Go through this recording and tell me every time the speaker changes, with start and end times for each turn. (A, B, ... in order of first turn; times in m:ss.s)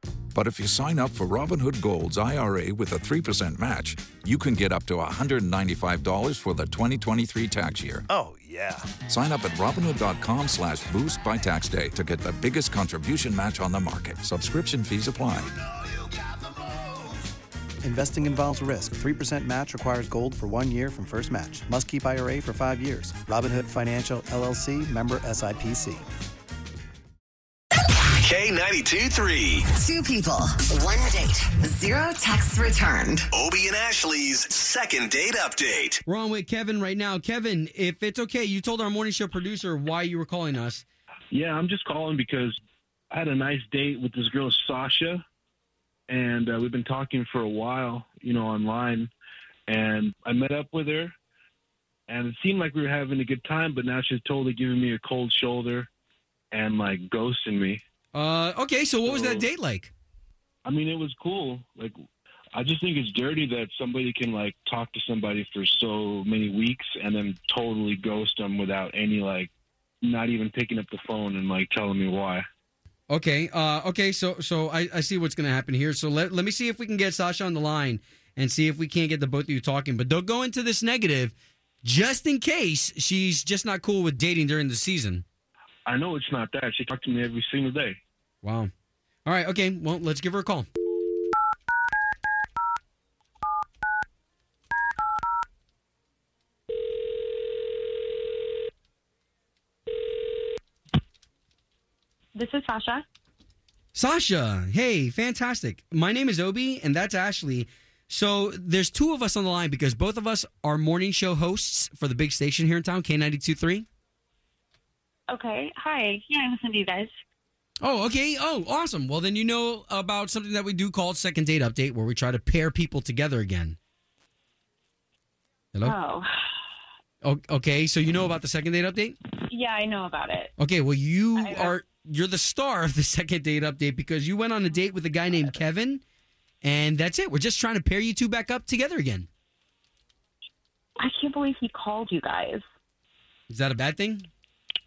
0:00.4-0:08.0 A
0:08.1-0:08.8 B
0:09.0-0:15.6 A
0:17.8-0:26.0 B
0:28.2-0:29.6 C
0:29.7-0:33.3 D
0:33.4-0:36.0 C
0:36.1-0:40.8 E
0:41.3-0:42.6 F
0:43.1-0:45.2 F
0:46.1-0:49.1 F
0:49.7-0:51.2 F
0:52.1-0:55.9 F
0:56.5-0:57.8 F
0:58.1-0:59.9 E
0:59.1-0:59.5 F
1:00.6-1:02.0 F
1:02.5-1:09.5 F
1:10.0-1:12.4 F
1:13.1-1:25.2 E
1:25.9-1:28.0 F
1:28.4-1:28.7 E
1:29.2-1:30.7 E
1:42.4-1:43.0 G
1:44.0-1:53.9 E
1:55.3-1:57.1 G
1:57.8-2:03.8 E
2:05.8-2:06.3 G
2:07.2-2:09.2 E
2:09.4-2:10.5 G
2:10.6-2:16.0 E
2:11.4-2:11.7 G
2:16.6-2:19.3 E
2:21.0-2:22.6 G
2:23.5-2:24.3 E